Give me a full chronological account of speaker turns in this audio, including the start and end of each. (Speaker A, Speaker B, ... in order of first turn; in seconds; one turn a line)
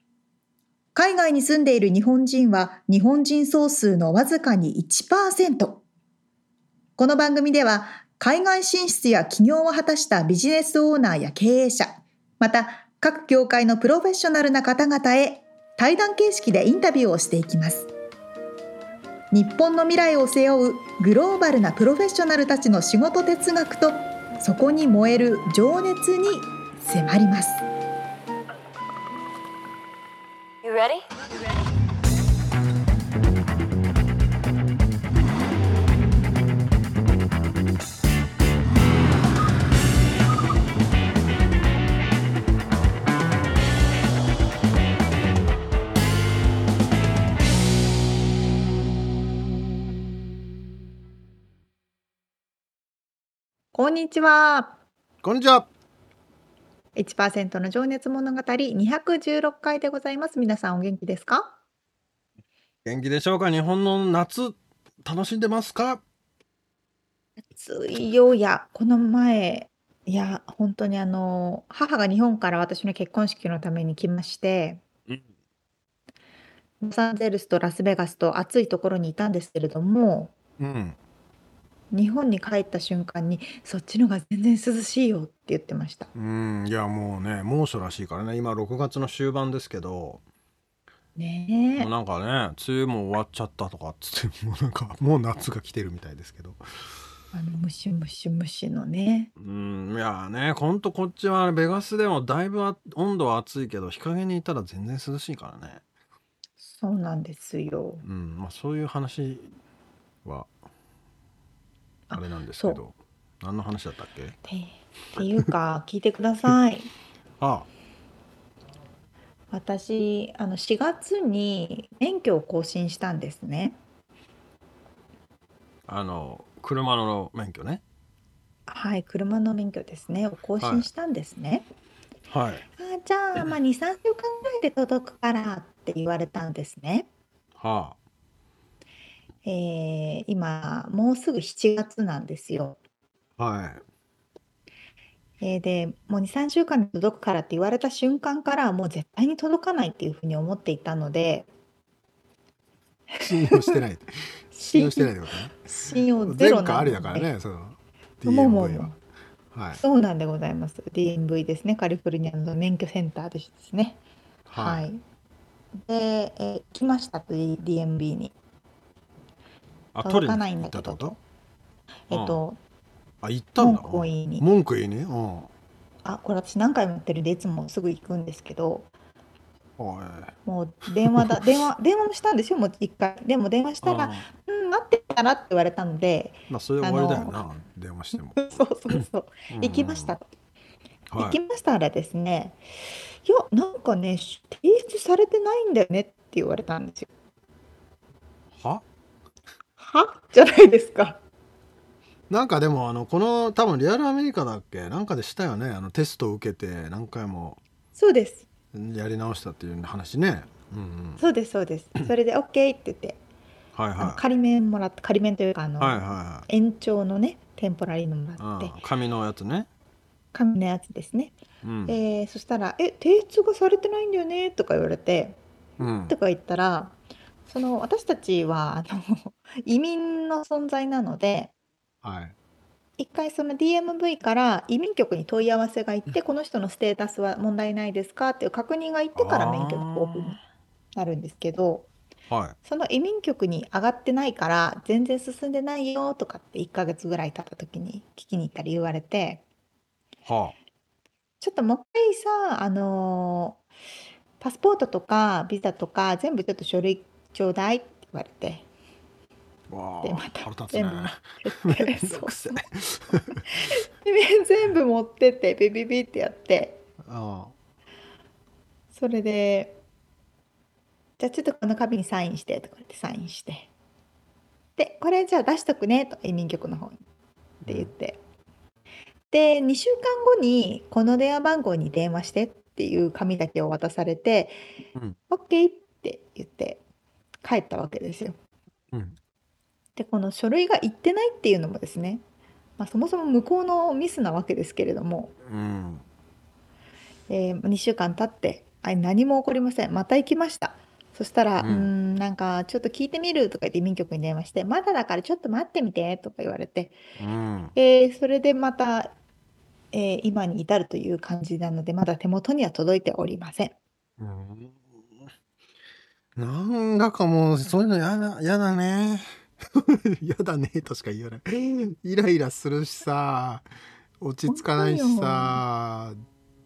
Speaker A: 0.9-5.8
Speaker A: 7.0-17.9
Speaker A: 19.3-27.6
Speaker A: 53.7-54.8
Speaker B: 55.2-55.7
Speaker A: 57.0-61.6
Speaker B: 62.9-66.0
Speaker A: 67.5-74.8
Speaker A: 76.8-80.3
Speaker B: 80.6-81.0
Speaker A: 81.9-86.1
Speaker B: 86.2-90.2
Speaker A: 91.2-91.9
Speaker B: 91.8-96.6
Speaker A: 97.3-99.3
Speaker B: 99.4-105.8
Speaker A: 106.6-108.0
Speaker B: 108.0-109.5
Speaker B: 110.2-110.5
Speaker A: 112.1-112.8
Speaker B: 112.1-114.4
Speaker A: 114.5-116.9
Speaker B: 115.2-115.5
Speaker B: 117.4-117.7
Speaker A: 119.5-123.8
Speaker B: 125.9-127.8
Speaker A: 128.7-131.7
Speaker B: 130.6-130.9
Speaker B: 132.3-132.7
Speaker A: 132.8-137.1
Speaker B: 137.6-138.0
Speaker A: 139.4-142.8
Speaker B: 143.4-143.8
Speaker A: 145.4-151.5
Speaker A: 153.1-153.8
Speaker B: 153.2-155.5
Speaker A: 154.6-157.3
Speaker B: 156.3-158.9
Speaker A: 158.2-159.0
Speaker B: 159.5-159.8
Speaker A: 159.8-165.0
Speaker B: 164.5-164.9
Speaker A: 165.9-168.3
Speaker B: 169.9-171.2
Speaker A: 170.0-171.2
Speaker A: 172.1-172.6
Speaker B: 172.1-172.4
Speaker B: 173.2-175.5
Speaker A: 173.6-174.5
Speaker A: 176.0-178.9
Speaker B: 179.8-180.3
Speaker A: 180.4-187.5
Speaker B: 180.9-181.5
Speaker B: 183.8-184.3
Speaker B: 186.5-190.2
Speaker A: 188.3-190.3
Speaker B: 191.1-191.4
Speaker A: 191.2-192.6
Speaker A: 193.2-197.1
Speaker B: 198.5-198.8
Speaker A: 199.8-201.2
Speaker B: 202.3-207.6
Speaker A: 208.0-208.5
Speaker B: 208.7-211.2
Speaker A: 211.2-213.2
Speaker B: 213.7-214.2
Speaker A: 214.0-218.8
Speaker B: 215.8-216.5
Speaker B: 218.4-219.7
Speaker A: 220.3-221.4
Speaker B: 221.6-222.0
Speaker A: 221.9-225.4
Speaker B: 225.8-226.2
Speaker A: 226.1-227.0
Speaker A: 227.5-231.5
Speaker B: 232.0-232.3
Speaker A: 233.0-240.4
Speaker B: 239.2-240.4
Speaker A: 240.9-241.9
Speaker B: 242.3-242.6
Speaker A: 242.6-249.4
Speaker B: 250.3-250.6
Speaker A: 251.4-253.6
Speaker A: 254.4-258.7
Speaker B: 259.7-263.5
Speaker A: 260.0-262.6
Speaker A: 263.5-266.8
Speaker B: 267.0-267.6
Speaker A: 268.9-269.8
Speaker A: 271.2-273.7
Speaker A: 274.8-277.0
Speaker B: 277.6-277.9
Speaker A: 277.6-278.2
Speaker A: 279.3-284.6
Speaker A: 285.3-286.8
Speaker A: 287.4-288.4
Speaker A: 290.0-292.2
Speaker A: 292.8-295.3
Speaker B: 295.5-296.1
Speaker A: 297.3-307.0
Speaker B: 301.6-301.9
Speaker B: 307.2-307.7
Speaker A: 307.8-309.1
Speaker A: 309.9-313.8
Speaker B: 314.2-314.9
Speaker B: 316.4-323.7
Speaker B: 324.2-326.2
Speaker A: 324.5-325.6